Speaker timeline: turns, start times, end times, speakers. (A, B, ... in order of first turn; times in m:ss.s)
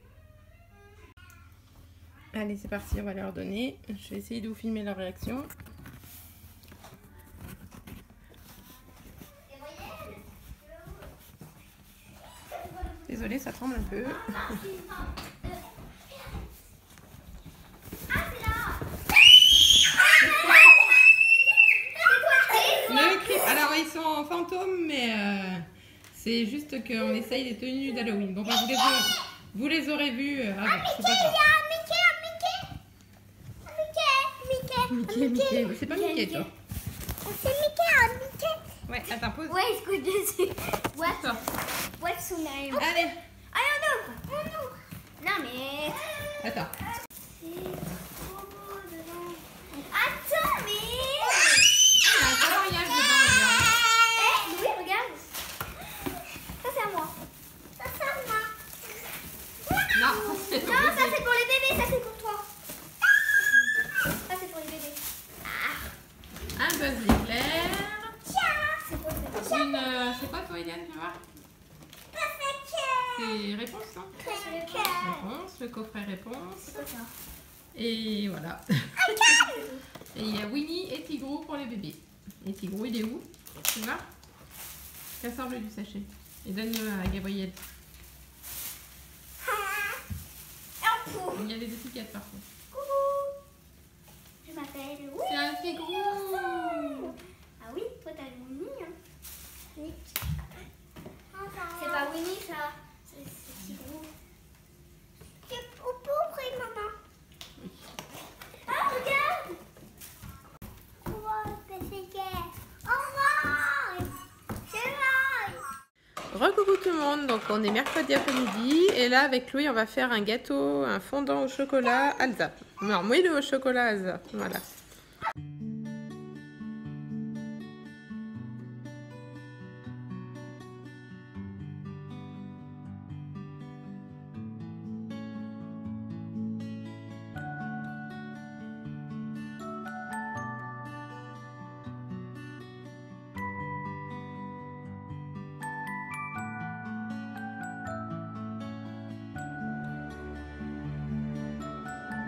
0:02.3-0:05.5 A
0:09.4-0:11.0 B
0:12.5-0:13.2 B
0:13.1-0:14.6 A
0:14.0-0:15.6 B
0:18.1-0:18.9 B
0:20.2-0:20.7 A
0:20.4-0:20.7 B
0:22.0-0:23.6 B
0:22.9-0:31.5 A
0:30.7-0:32.7 B
0:33.6-0:36.5 B
0:34.8-0:36.5 A
0:37.2-0:38.6 B
0:38.9-0:39.6 A
0:39.4-0:46.3 B
0:41.0-0:41.4 A
0:42.8-0:43.2 A
0:46.4-0:46.8 A
0:47.4-0:51.7 B
0:52.0-0:53.8 A
0:54.1-0:55.4 B
0:56.6-0:57.2 B
0:57.8-0:58.5 B
0:59.8-1:02.5 B
0:59.9-1:01.2 A
1:04.2-1:05.9 B
1:06.6-1:08.1 A
1:08.3-1:09.9 B
1:09.4-1:11.2 A
1:12.1-1:13.0 B
1:13.1-1:16.9 A
1:14.2-1:15.2 B
1:16.7-1:17.1 B
1:17.7-1:19.6 A
1:19.3-1:19.8 B
1:20.1-1:24.1 A
1:25.2-1:27.6 A
1:29.4-1:30.0 B
1:30.8-1:31.4 B
1:31.3-1:32.4 A
1:32.7-1:33.3 B
1:34.4-1:35.4 B
1:35.2-1:37.2 A
1:36.6-1:39.0 B
1:39.8-1:40.2 B
1:41.3-1:44.1 B
1:45.5-1:46.9 B
1:48.7-1:49.6 B
1:51.0-1:54.2 B
1:54.7-1:55.7 B
1:56.3-2:04.6 A